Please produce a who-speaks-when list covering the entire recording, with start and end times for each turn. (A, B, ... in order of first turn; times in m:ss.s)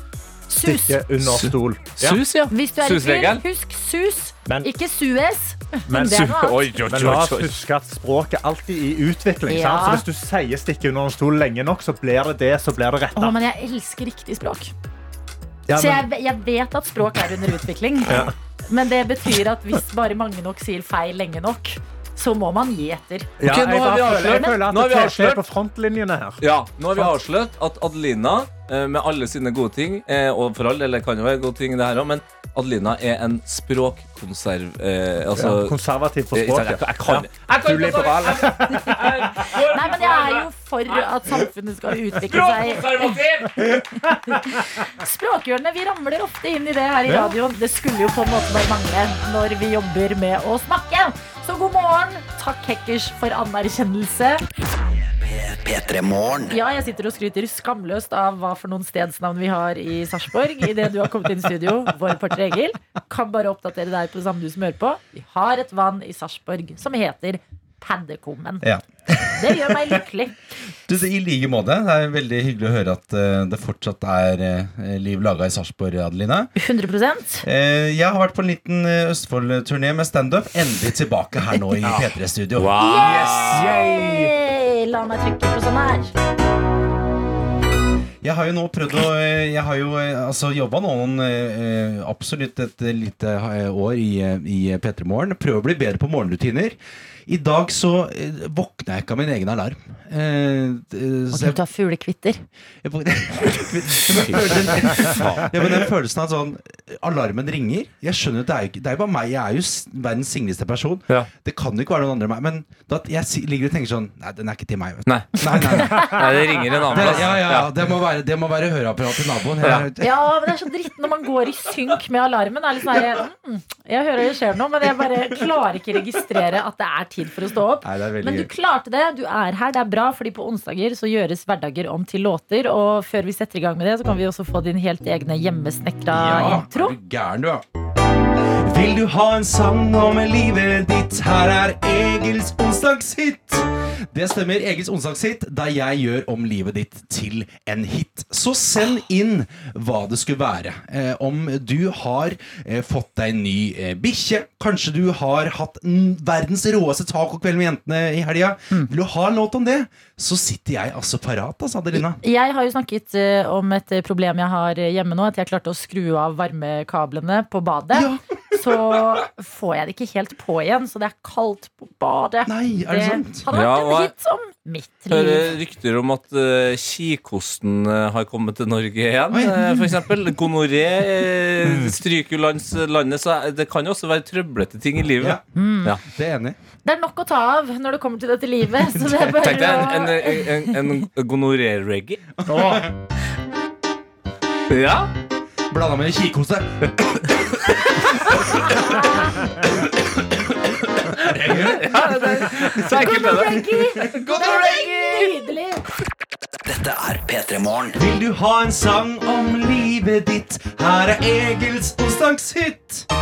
0:00.5-0:01.0 A
0:00.6-0:02.2 B
0:01.2-0:03.4 C
0:02.5-0:06.8 A
0:05.9-0:13.4 B
0:06.0-0:07.5 C
0:09.5-0:10.0 A
0:13.2-0:14.7 A
0:15.7-0:16.1 B
0:15.8-0:23.3 A
0:18.1-0:18.3 B
0:23.4-0:26.4 B
0:23.4-0:25.4 C
0:26.4-0:35.8 C
0:35.4-0:39.5 B
0:36.3-0:41.1 C
0:39.5-0:54.4 A
0:42.3-0:43.8 C
0:47.1-0:47.3 B
0:55.3-0:56.5 D
0:56.5-1:08.6 A
1:08.6-1:10.0 E
1:09.4-1:10.4 A
1:10.9-1:16.5 E
1:16.6-1:17.4 A
1:17.4-1:22.7 E
1:21.8-1:22.1 B
1:22.6-1:23.8 C
1:22.8-1:26.1 A
1:22.9-1:24.3 B
1:28.2-1:41.6 E
1:41.3-1:42.4 A
1:42.8-1:56.3 E
1:44.2-1:45.5 C
1:55.1-1:57.7 C
1:55.8-1:56.2 A
1:56.9-2:00.2 E
1:59.6-1:59.9 C
2:00.0-2:17.0 A
2:07.8-2:08.5 E
2:16.1-2:17.6 E
2:18.7-2:42.2 E
2:41.9-2:55.4 A
2:47.9-2:49.0 E
2:52.4-2:53.5 E
2:53.5-2:54.1 C
2:55.1-3:06.0 C
2:59.3-2:59.9 E
3:05.6-3:06.0 A
3:06.1-3:06.6 E
3:06.8-3:10.7 A
3:08.9-3:10.0 E
3:09.4-3:12.2 C
3:12.4-3:12.9 E
3:12.5-3:12.8 B
3:14.7-3:15.1 C
3:15.7-3:17.5 E
3:17.4-3:18.1 C
3:18.2-3:19.5 E
3:21.0-3:24.1 C
3:21.2-3:25.4 E
3:22.8-3:25.8 A
3:26.7-3:28.0 D
3:28.0-3:33.1 E